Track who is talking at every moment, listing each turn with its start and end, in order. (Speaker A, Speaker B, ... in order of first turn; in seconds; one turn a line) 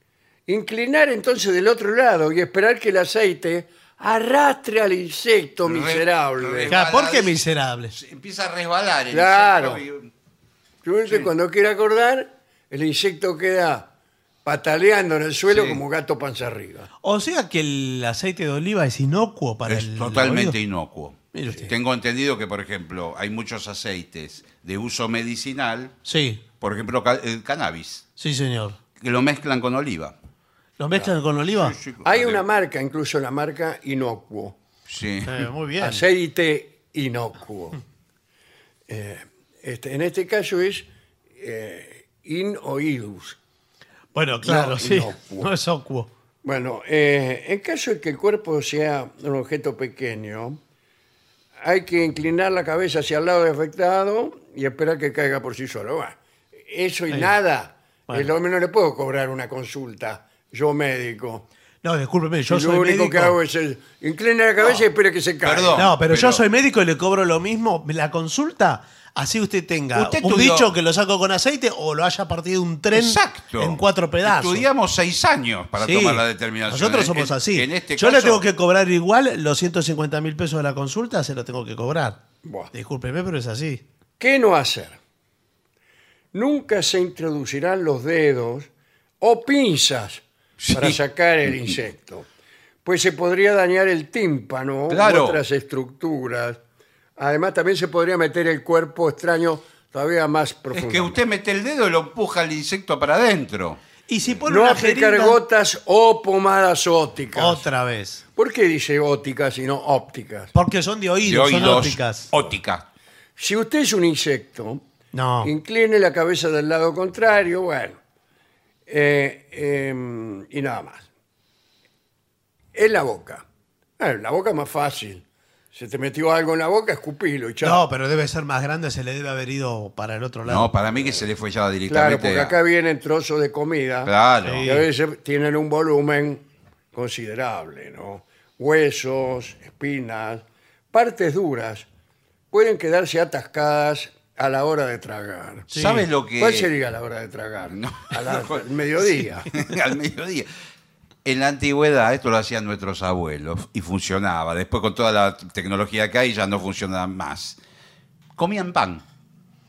Speaker A: 0.5-6.7
Speaker B: 5.7-7.4
Speaker C: 6.7-7.9
Speaker B: 7.9-10.1
Speaker A: 9.1-9.8
Speaker A: 10.8-13.9
Speaker A: 14.4-16.9
Speaker B: 15.5-15.8
Speaker C: 17.0-20.6
Speaker B: 19.7-25.9
Speaker C: 21.3-21.7
Speaker C: 26.0-26.4
Speaker B: 26.6-28.0
Speaker C: 28.2-28.8
Speaker B: 29.0-30.1
Speaker C: 30.8-31.8
Speaker B: 31.5-32.4
Speaker A: 32.0-34.6
Speaker B: 34.9-35.5
Speaker C: 35.2-36.0
Speaker A: 35.8-37.8
Speaker A: 38.9-40.9
Speaker A: 41.4-43.4
Speaker C: 44.1-46.1
Speaker A: 44.4-45.5
Speaker A: 46.4-50.6
Speaker A: 51.6-61.5
Speaker C: 61.8-63.4
Speaker A: 62.5-65.8
Speaker B: 65.4-66.4
Speaker C: 65.7-74.7
Speaker B: 69.9-70.7
Speaker B: 72.9-78.4
Speaker C: 75.8-82.2
Speaker A: 82.4-82.7
Speaker C: 82.7-83.8
Speaker A: 84.2-85.0
Speaker A: 86.3-88.7
Speaker A: 89.2-92.3
Speaker B: 90.6-91.0
Speaker A: 92.8-96.6
Speaker B: 94.9-95.4
Speaker A: 97.2-101.2
Speaker B: 100.7-103.8
Speaker C: 104.1-105.4
Speaker A: 104.5-107.7
Speaker C: 107.3-108.2
Speaker A: 108.3-110.5
Speaker C: 110.5-112.3
Speaker B: 111.2-112.8
Speaker A: 113.4-114.8
Speaker C: 115.1-115.5
Speaker A: 115.4-118.0
Speaker A: 118.9-121.1
Speaker A: 122.7-123.4
Speaker A: 124.0-127.8
Speaker C: 127.6-130.7
Speaker B: 130.4-132.5
Speaker A: 131.0-131.2
Speaker A: 131.9-134.1
Speaker B: 134.1-134.7
Speaker C: 134.4-134.9
Speaker A: 134.6-141.9
Speaker A: 142.5-145.7
Speaker C: 145.7-146.1
Speaker B: 145.7-146.7
Speaker A: 146.4-149.5
Speaker B: 147.7-148.6
Speaker B: 149.5-150.5
Speaker B: 151.2-157.6
Speaker B: 158.4-159.0